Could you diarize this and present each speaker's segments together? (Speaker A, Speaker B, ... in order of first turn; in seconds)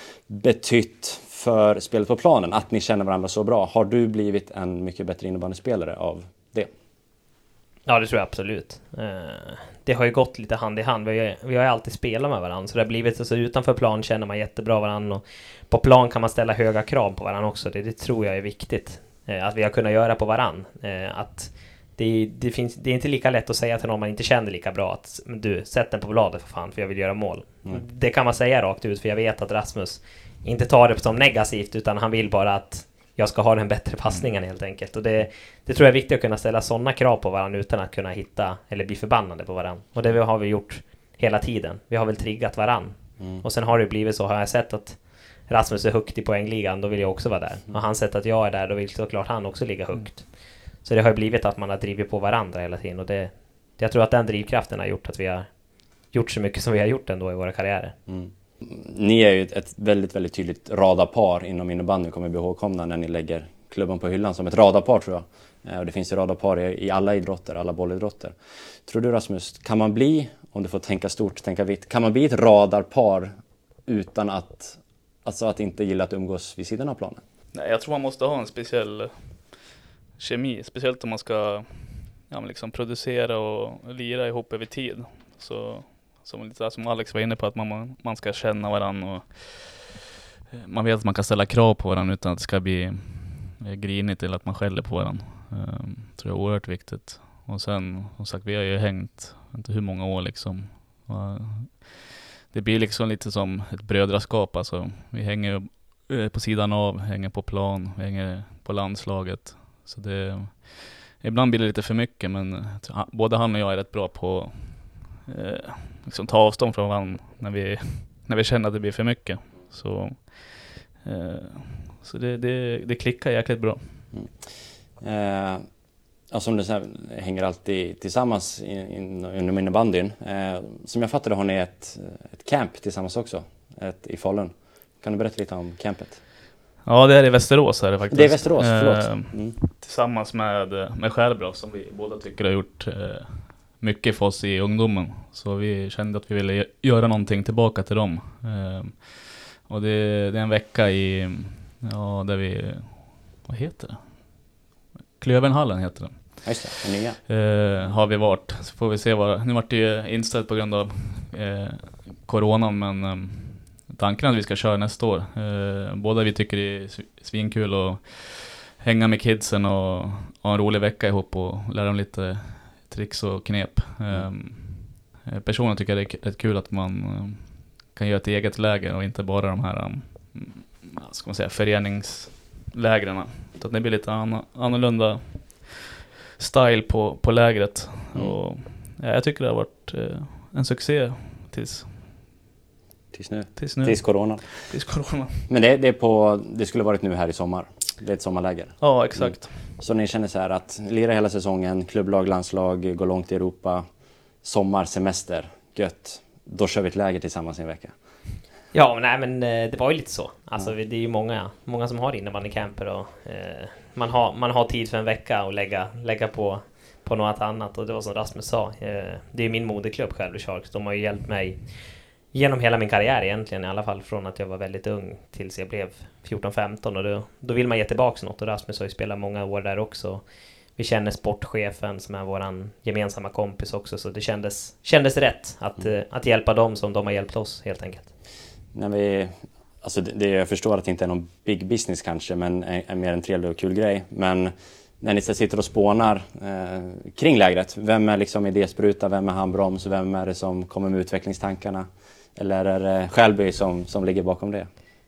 Speaker A: 0.3-6.7, 43.2-43.4, 58.1-68.3, 68.8-73.3, 73.8-77.2, 125.0-125.6, 126.3-136.2, 138.1-139.6, 156.4-157.2, 193.1-194.6, 195.5-203.8, 204.4-207.9, 238.7-254.7
Speaker B: 7.8-58.0, 208.7-238.1
Speaker C: 77.5-79.6, 80.2-124.0, 136.8-154.5, 155.2-156.7, 157.3-185.8, 186.4-192.3, 193.6-195.4, 198.8-199.7